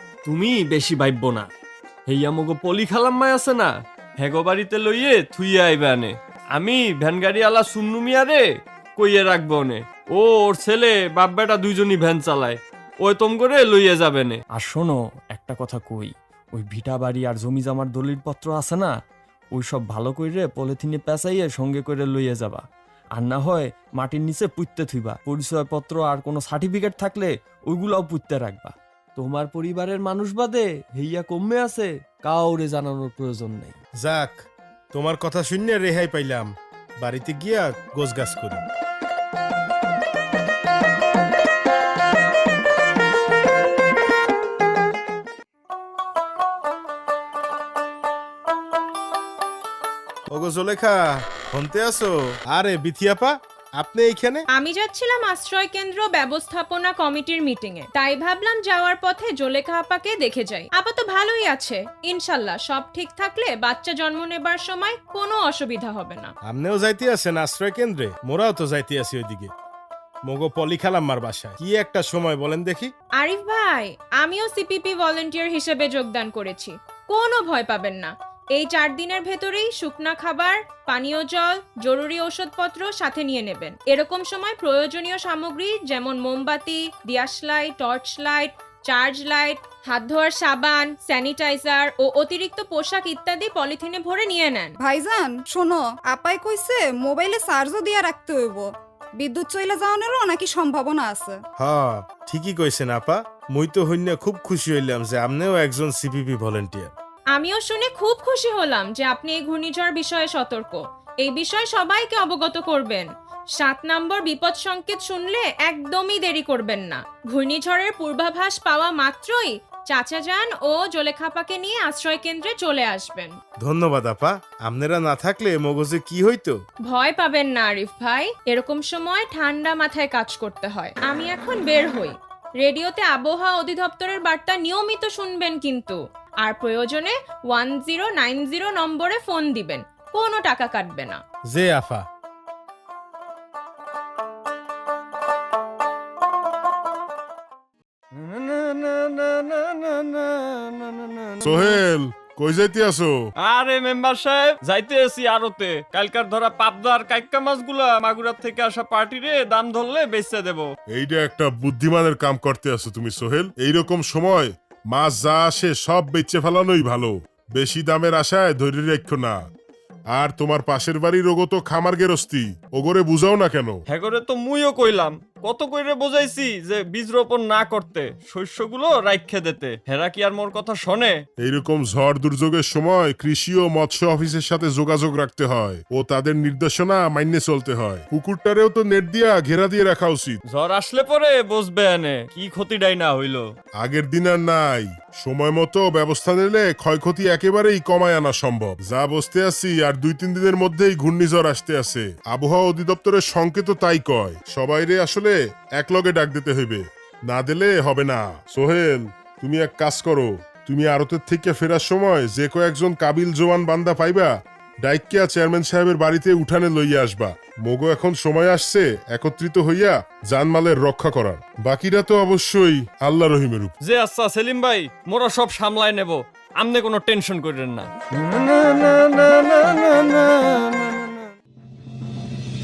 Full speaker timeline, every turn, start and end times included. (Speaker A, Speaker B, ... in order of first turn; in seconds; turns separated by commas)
Speaker A: 0.2-1.5, Speaker A: 2.1-8.4, Speaker A: 9.0-18.9, Speaker A: 19.6-22.6, Speaker A: 23.1-33.8, Speaker B: 34.0-34.4, Speaker B: 34.9-38.6, Speaker B: 50.3-54.4, Speaker C: 54.5-66.3, Speaker B: 66.5-69.5, Speaker B: 70.3-72.9, Speaker C: 73.2-94.7, Speaker D: 94.8-101.4, Speaker B: 101.6-106.9, Speaker C: 107.3-113.1, Speaker C: 113.6-123.4, Speaker B: 123.6-126.6, Speaker C: 126.9-141.2, Speaker B: 141.5-142.0, Speaker A: 148.2-151.8, Speaker E: 151.4-153.1, Speaker A: 153.4-160.7, Speaker E: 160.9-169.4, Speaker E: 170.1-173.8, Speaker A: 173.9-181.1, Speaker E: 181.4-190.4, Speaker A: 190.5-193.4, Speaker E: 193.8-214.3, Speaker E: 214.8-223.7, Speaker A: 223.8-231.3